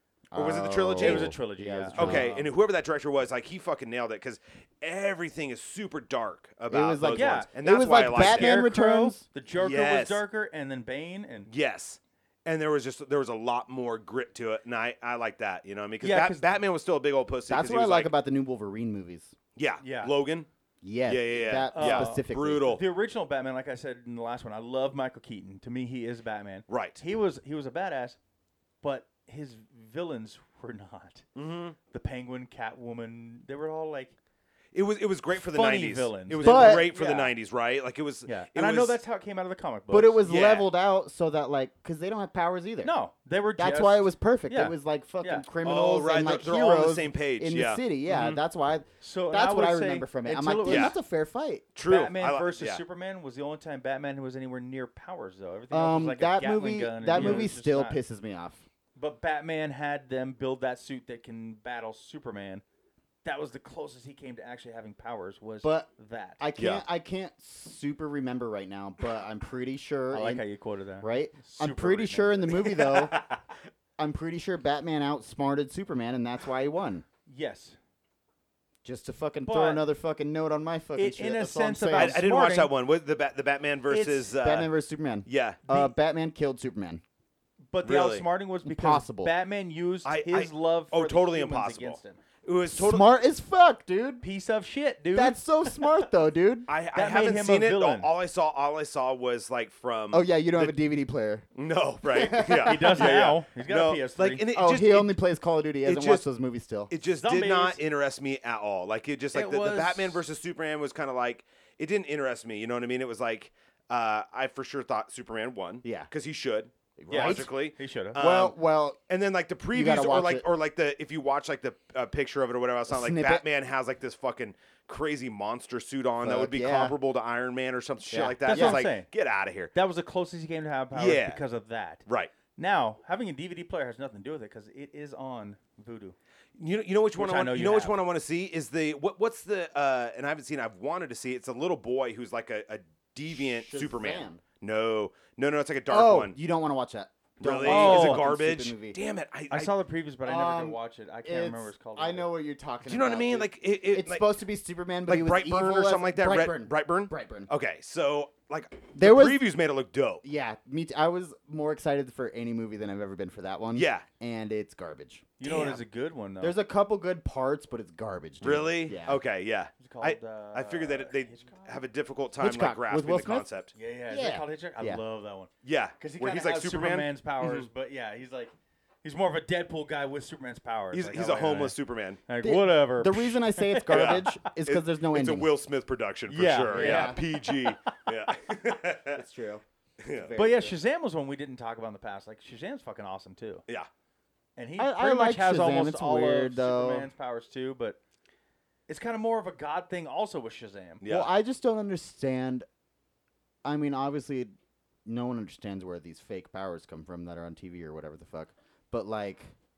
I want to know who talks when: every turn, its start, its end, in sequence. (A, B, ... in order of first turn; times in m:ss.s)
0:00.3-0:02.4 A
0:00.4-0:01.4 B
0:01.0-0:02.5 C
0:02.0-0:08.6 B
0:06.7-0:09.2 A
0:07.0-0:07.5 C
0:08.0-0:11.5 C
0:09.6-0:10.2 B
0:11.5-0:18.1 B
0:16.0-0:16.5 C
0:17.5-0:19.4 A
0:19.6-0:20.5 B
0:19.8-0:20.1 C
0:20.8-0:22.8 A
0:21.0-0:22.8 B
0:21.7-0:28.2 C
0:26.7-0:27.0 B
0:28.8-0:31.3 C
0:31.4-0:31.8 B
0:31.9-0:34.2 C
0:34.7-0:39.0 B
0:35.3-0:37.3 C
0:36.4-0:36.9 A
0:38.3-0:40.2 C
0:39.9-0:42.9 A
0:40.2-0:40.7 B
0:42.8-0:45.5 C
0:43.6-0:51.7 A
0:45.6-0:48.4 B
0:49.0-0:51.0 C
0:50.6-0:51.0 B
0:51.8-0:52.8 B
0:51.8-0:58.0 C
0:55.7-0:58.6 A
0:57.1-0:57.5 B
0:59.0-1:02.6 C
1:03.2-1:06.4 C
1:05.6-1:05.9 A
1:06.4-1:10.4 A
1:06.6-1:06.8 B
1:10.1-1:12.8 C
1:11.0-1:13.2 A
1:12.8-1:13.4 B
1:14.0-1:17.0 A
1:17.3-1:17.8 C
1:18.8-1:22.2 A
1:19.5-1:19.8 C
1:21.0-1:22.7 C
1:21.9-1:24.7 B
1:23.9-1:24.3 C
1:24.4-1:27.0 A
1:25.3-1:25.8 B
1:27.7-1:32.2 C
1:27.8-1:28.3 B
1:28.6-1:29.3 A
1:30.0-1:33.1 B
1:32.7-1:34.2 A
1:34.2-1:35.9 C
1:35.1-1:36.7 A
1:36.7-1:40.8 B
1:36.9-1:38.1 C
1:40.1-1:41.4 A
1:41.6-1:45.2 B
1:42.0-1:43.2 A
1:42.6-1:44.4 C
1:44.5-1:46.9 A
1:45.8-1:46.3 B
1:46.9-1:58.6 B
1:47.2-1:47.8 C
1:49.3-1:50.2 C
1:55.8-1:56.1 A
1:57.0-1:57.5 A
1:57.1-1:58.2 C
1:58.2-1:59.0 A
1:59.1-2:09.7 B
1:59.7-2:00.5 A
2:02.9-2:03.5 A
2:06.2-2:07.0 A
2:08.1-2:08.8 A
2:08.4-2:09.1 C
2:09.7-2:12.0 C
2:10.9-2:11.4 B
2:12.1-2:12.3 B
2:12.6-2:16.2 C
2:16.6-2:26.4 B
2:17.2-2:18.0 C
2:23.3-2:24.4 A
2:25.9-2:29.0 A
2:27.4-2:29.7 B
2:27.6-2:28.3 C
2:29.5-2:32.3 C
2:30.2-2:37.5 A
2:32.8-2:34.3 B
2:35.1-2:40.2 B
2:39.0-2:39.4 A
2:40.2-2:45.8 A
2:43.7-2:44.1 B
2:45.4-2:46.6 C
2:45.4-2:45.8 B
2:46.4-2:49.2 A
2:48.4-2:53.7 B
2:49.8-2:51.8 C
2:52.4-2:53.5 A
2:53.8-3:01.8 C
2:54.1-2:55.0 A
2:55.6-2:57.7 B
3:00.9-3:02.2 B
3:02.3-3:04.3 C
3:02.4-3:05.5 A
3:03.9-3:09.2 B
3:06.3-3:07.7 C
3:06.7-3:07.2 A
3:09.1-3:10.8 A
3:10.0-3:10.3 B
3:10.4-3:13.6 C
3:14.6-3:18.0 C
3:14.8-3:17.1 A
3:18.9-3:21.0 C
3:21.0-3:21.3 B
3:21.0-3:22.7 A
3:23.6-3:24.5 A
3:25.0-3:29.5 A